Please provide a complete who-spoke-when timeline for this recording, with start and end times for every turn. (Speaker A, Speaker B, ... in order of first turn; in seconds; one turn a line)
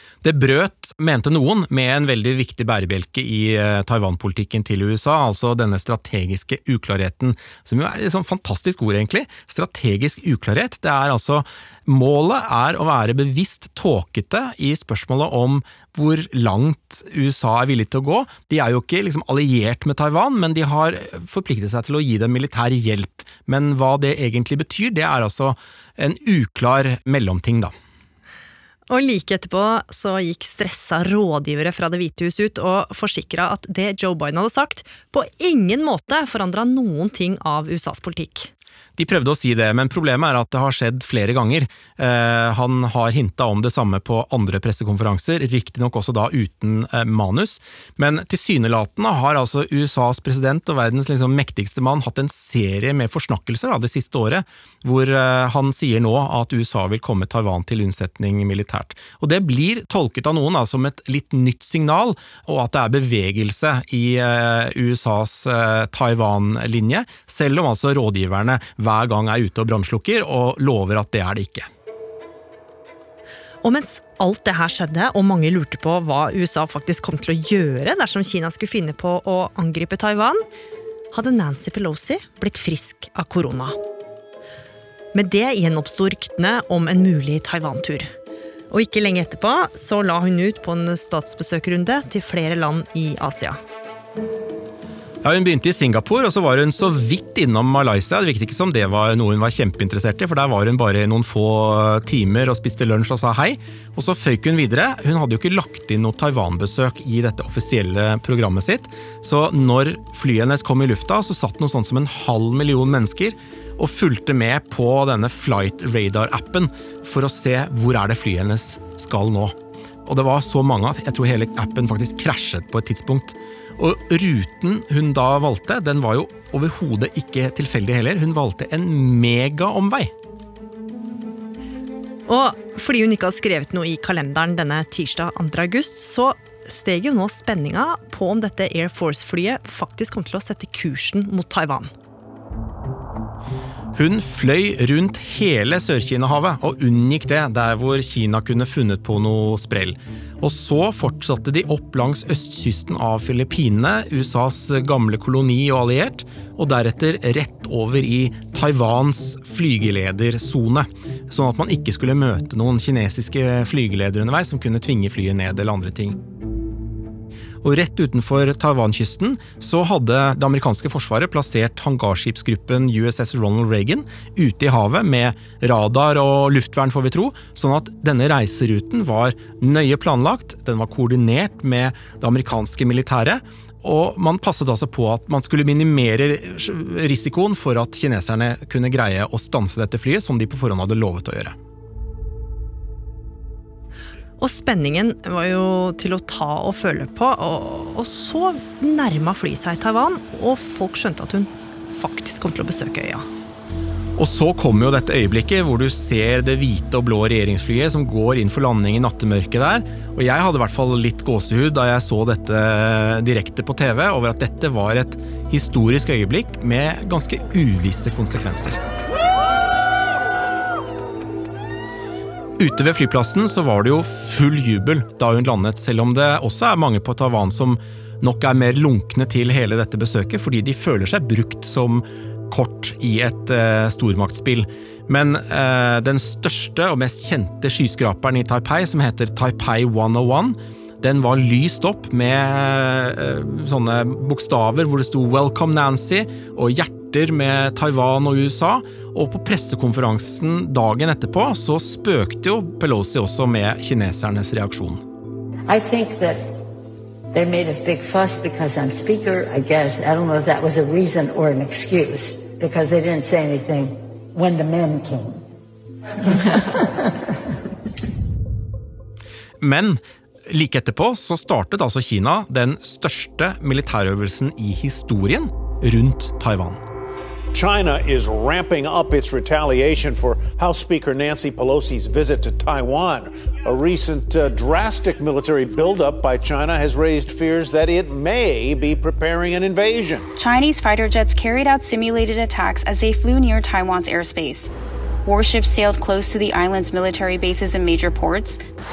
Speaker A: 0.2-27.7
Speaker B: 28.9-38.5
Speaker A: 39.0-71.7
Speaker B: 73.6-80.4
Speaker B: 81.1-83.7
Speaker B: 85.1-88.1
Speaker B: 88.7-93.6
Speaker A: 95.2-119.5
Speaker A: 120.0-130.1
Speaker B: 132.3-141.9
Speaker A: 143.9-166.2
Speaker A: 167.6-191.5
Speaker B: 194.4-203.2
Speaker A: 204.2-218.8
Speaker A: 222.6-255.0
Speaker C: 255.7-256.4
Speaker C: 257.3-265.4
Speaker C: 266.3-267.0
Speaker A: 269.6-276.8
Speaker D: 277.5-290.3
Speaker E: 290.4-294.7
Speaker E: 295.2-298.6